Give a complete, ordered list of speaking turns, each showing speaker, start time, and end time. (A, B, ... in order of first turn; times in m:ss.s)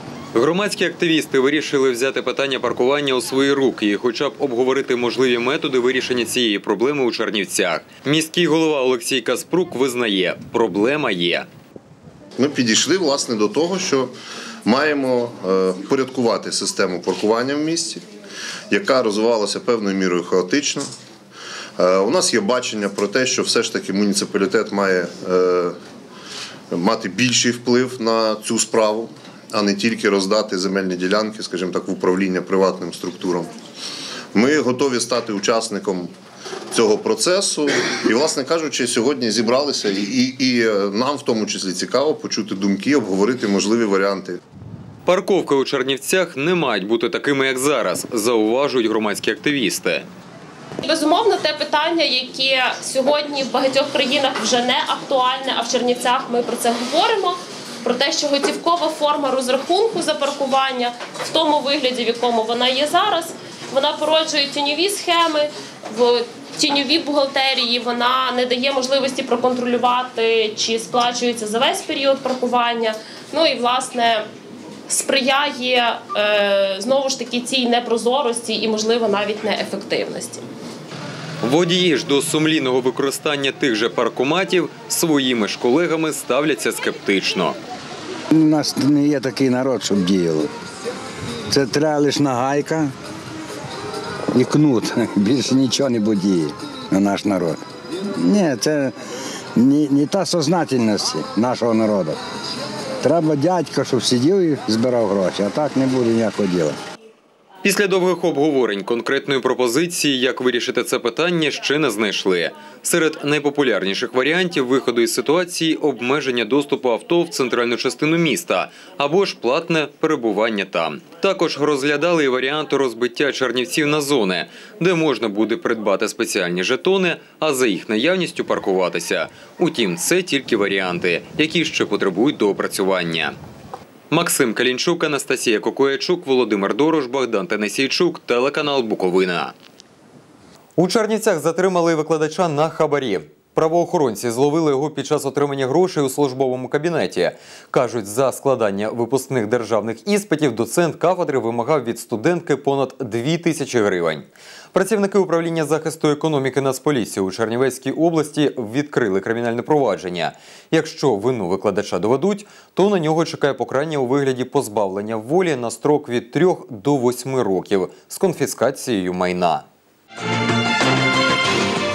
0:00.3-0:11.5 A
0:12.4-0:14.1 B
0:14.6-0:18.0 B
0:18.7-0:20.9 B
0:21.8-0:25.8 B
0:26.7-0:33.5 B
0:34.3-0:36.1 B
0:36.7-0:44.4 B
0:45.0-0:50.1 A
0:50.8-1:14.3 C
1:14.9-1:20.4 C
1:21.4-1:27.6 A
1:28.4-1:30.4 D
1:31.5-1:32.9 D
1:34.4-1:36.4 D
1:37.0-1:37.5 D
1:38.2-1:38.8 D
1:39.7-1:42.1 D
1:43.0-1:46.5 D
1:47.6-2:13.4 A
2:14.1-2:19.5 A
2:20.8-2:49.6 A